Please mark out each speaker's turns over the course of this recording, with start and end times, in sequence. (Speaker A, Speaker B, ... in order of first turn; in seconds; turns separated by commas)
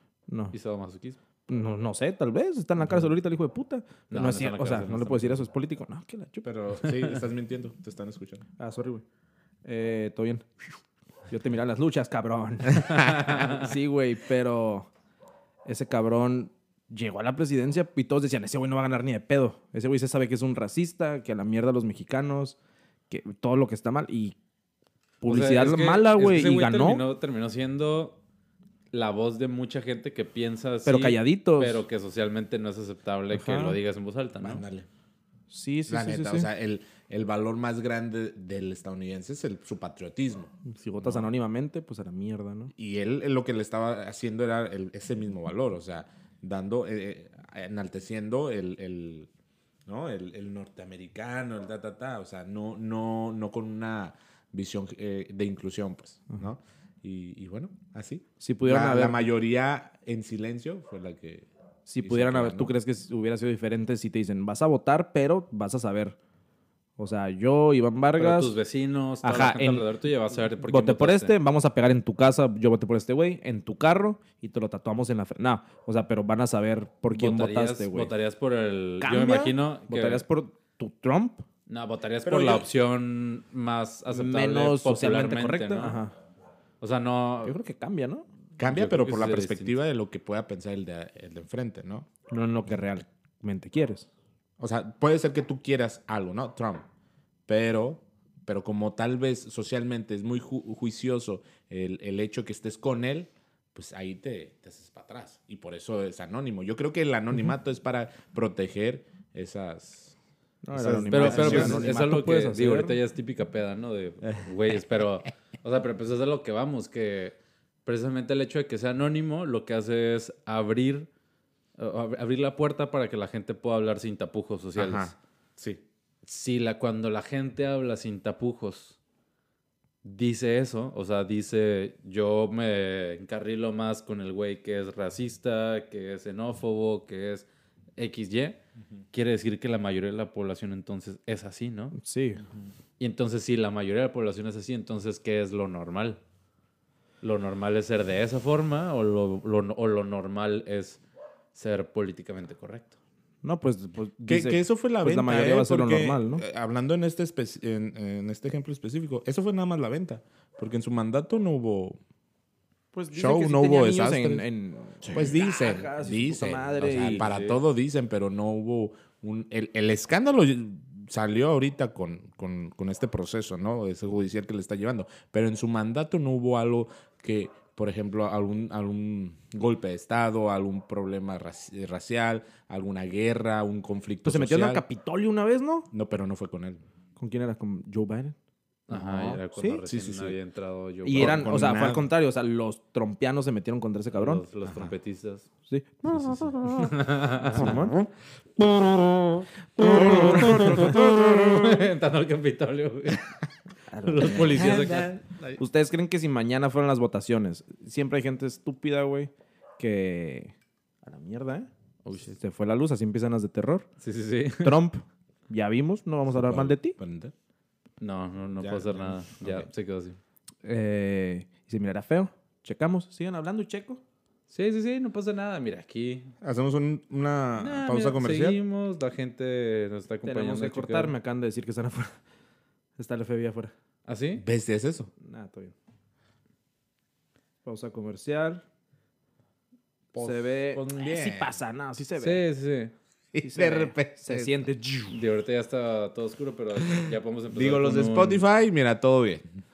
Speaker A: 0.3-0.5, Speaker B: 0.5-1.2, Speaker A: 1.5-6.5, Speaker B: 4.1-5.5, Speaker C: 6.4-8.4, Speaker A: 8.6-9.0, Speaker A: 9.7-10.5, Speaker A: 11.3-14.9, Speaker B: 13.0-13.7, Speaker A: 15.7-22.6, Speaker A: 23.1-24.4, Speaker A: 25.2-27.0, Speaker B: 25.2-28.2, Speaker B: 28.9-34.6, Speaker A: 30.9-31.8, Speaker A: 33.3-33.8, Speaker C: 34.4-34.9, Speaker A: 35.5-36.5, Speaker C: 35.9-41.3, Speaker A: 40.7-42.7, Speaker C: 42.8-49.3, Speaker C: 49.9-61.5, Speaker A: 58.4-59.2, Speaker A: 61.9-66.2, Speaker C: 62.0-62.7, Speaker A: 67.0-68.5, Speaker B: 68.2-71.3, Speaker A: 69.2-69.9, Speaker A: 70.6-78.1, Speaker B: 77.1-80.2, Speaker A: 79.0-81.5, Speaker B: 81.7-86.0, Speaker C: 82.2-82.7, Speaker A: 84.1-86.1, Speaker B: 86.8-87.6, Speaker A: 87.4-88.3, Speaker C: 88.6-92.1, Speaker B: 88.6-89.8, Speaker A: 92.3-94.1, Speaker C: 94.6-96.9, Speaker C: 97.5-110.2, Speaker A: 110.6-113.0, Speaker C: 110.7-112.1, Speaker B: 111.1-121.1, Speaker B: 121.8-125.1, Speaker C: 124.8-125.8, Speaker B: 126.2-129.0, Speaker B: 130.0-138.6, Speaker B: 139.1-142.0, Speaker A: 142.0-142.4, Speaker B: 143.0-146.2, Speaker B: 147.2-151.0, Speaker B: 151.6-152.9, Speaker A: 153.4-156.4, Speaker C: 154.3-162.0, Speaker A: 162.9-167.3, Speaker C: 163.1-164.5, Speaker C: 165.0-184.8, Speaker B: 167.1-167.6, Speaker A: 184.2-185.9, Speaker C: 185.9-186.8, Speaker A: 187.2-188.4, Speaker B: 188.9-191.5, Speaker A: 188.9-189.8, Speaker C: 189.8-190.4, Speaker A: 191.1-194.4, Speaker C: 191.2-192.1, Speaker B: 194.1-195.5, Speaker C: 194.6-194.9, Speaker A: 195.7-198.0, Speaker B: 196.6-197.8, Speaker A: 199.8-201.1, Speaker B: 199.8-203.3, Speaker C: 200.0-201.8, Speaker A: 203.9-204.8, Speaker B: 204.0-205.2, Speaker C: 204.4-205.6, Speaker A: 205.6-213.9, Speaker B: 212.0-212.3, Speaker B: 214.0-214.8, Speaker A: 214.6-217.0, Speaker C: 216.3-217.3, Speaker B: 218.0-220.2, Speaker C: 218.6-219.7, Speaker A: 220.6-224.0, Speaker B: 224.5-226.3, Speaker C: 226.4-228.6, Speaker B: 227.6-231.1, Speaker A: 230.2-232.2, Speaker A: 233.0-233.7, Speaker B: 234.1-234.4, Speaker C: 234.4-235.1, Speaker A: 235.2-235.7, Speaker A: 237.7-238.6, Speaker C: 240.1-241.6, Speaker A: 240.2-242.4, Speaker B: 242.2-242.9, Speaker C: 243.3-244.7, Speaker A: 243.4-245.2, Speaker B: 245.1-248.4, Speaker C: 246.8-249.4